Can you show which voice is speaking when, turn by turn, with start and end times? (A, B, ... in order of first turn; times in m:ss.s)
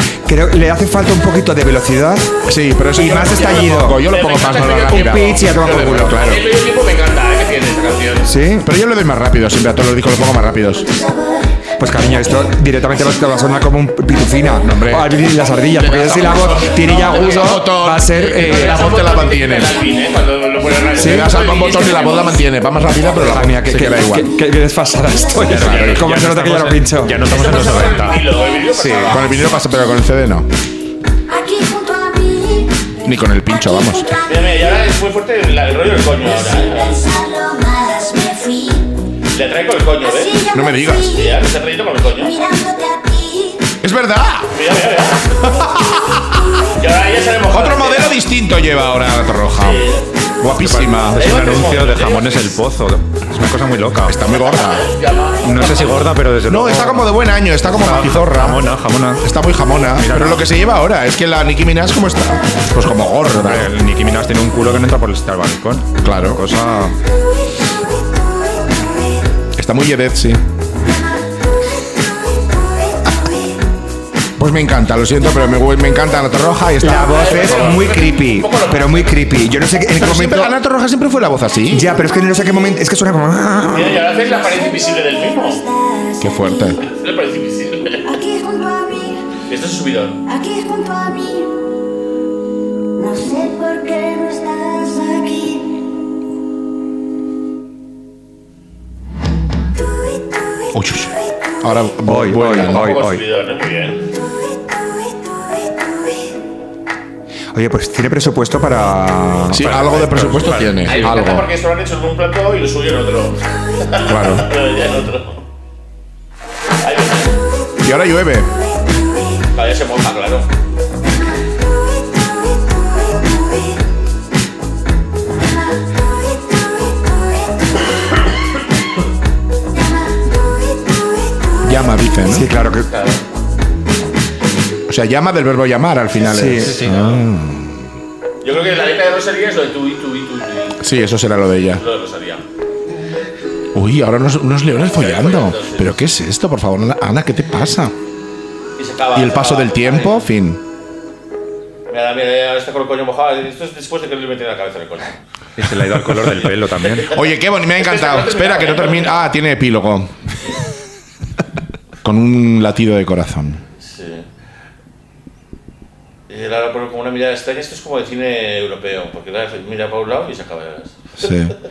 0:00.3-0:02.3 A
0:02.5-0:06.5 B
0:02.9-0:04.0 A
0:04.1-0:08.4 C
0:04.8-0:06.2 A
0:08.2-0:08.7 A
0:08.6-0:10.8 B
0:10.8-0:12.5 D
0:11.8-0:18.8 A
0:14.6-0:19.7 B
0:16.9-0:17.5 C
0:18.3-0:22.4 C
0:18.8-0:23.2 D
0:21.0-0:24.3 B
0:21.0-0:21.3 A
0:23.1-0:27.2 A
0:25.1-0:25.5 D
0:25.4-0:29.2 E
0:25.6-0:26.0 B
0:27.2-0:29.4 C
0:29.1-0:30.5 B
0:31.3-0:34.8 D
0:33.0-0:34.2 B
0:34.3-0:37.0 C
0:36.1-0:39.1 D
0:39.3-0:40.4 C
0:40.0-0:41.4 D
0:40.5-0:41.2 B
0:41.0-0:42.4 C
0:42.1-0:43.8 D
0:43.8-0:44.5 B
0:44.5-0:45.5 C
0:45.4-0:46.4 B
0:46.8-0:48.2 C
0:47.5-0:49.8 B
0:49.6-0:50.1 C
0:50.4-0:51.4 B
0:50.5-0:54.2 E
0:51.1-0:52.6 C
0:54.1-0:54.9 B
0:54.3-0:56.1 C
0:55.4-0:59.4 E
0:56.4-0:58.6 B
0:59.2-1:03.7 B
0:59.9-1:00.5 E
1:03.4-1:07.0 E
1:06.0-1:06.4 B
1:09.6-1:10.4 B
1:12.3-1:13.3 D
1:14.4-1:17.8 B
1:16.8-1:20.6 A
1:16.8-1:19.2 C
1:20.0-1:21.9 B
1:21.7-1:24.0 A
1:21.9-1:22.8 D
1:23.7-1:25.6 C
1:24.2-1:26.8 D
1:26.2-1:26.8 B
1:26.8-1:28.1 C
1:28.0-1:29.3 D
1:29.5-1:30.2 C
1:30.2-1:31.6 D
1:33.0-1:35.7 D
1:40.7-1:41.1 D
1:40.7-1:41.1 B
1:41.6-1:43.0 B
1:42.0-1:43.2 A
1:42.4-1:44.0 C
1:44.9-1:46.2 D
1:47.5-1:50.3 A
1:49.5-1:51.5 B
1:49.6-1:51.1 E
1:50.7-1:55.4 C
1:54.0-1:54.5 B
1:56.8-1:57.4 C
1:57.8-1:58.5 B
1:59.5-2:00.5 C
2:06.5-2:07.5 D
2:10.7-2:12.1 D
2:11.6-2:12.5 B
2:12.3-2:12.9 A
2:12.9-2:13.2 C
2:14.9-2:17.8 B
2:16.2-2:16.8 A
2:16.7-2:17.0 E
2:18.4-2:20.9 C
2:20.8-2:21.8 B
2:21.7-2:22.4 C
2:23.7-2:27.9 B
2:24.9-2:26.0 C
2:28.8-2:30.3 C
2:29.1-2:30.6 B
2:31.9-2:35.1 C
2:35.6-2:37.1 E
2:37.1-2:40.1 B
2:37.8-2:39.2 C
2:42.0-2:43.6 B
2:43.8-2:44.3 C
2:46.3-2:51.3 C
2:51.2-2:51.6 B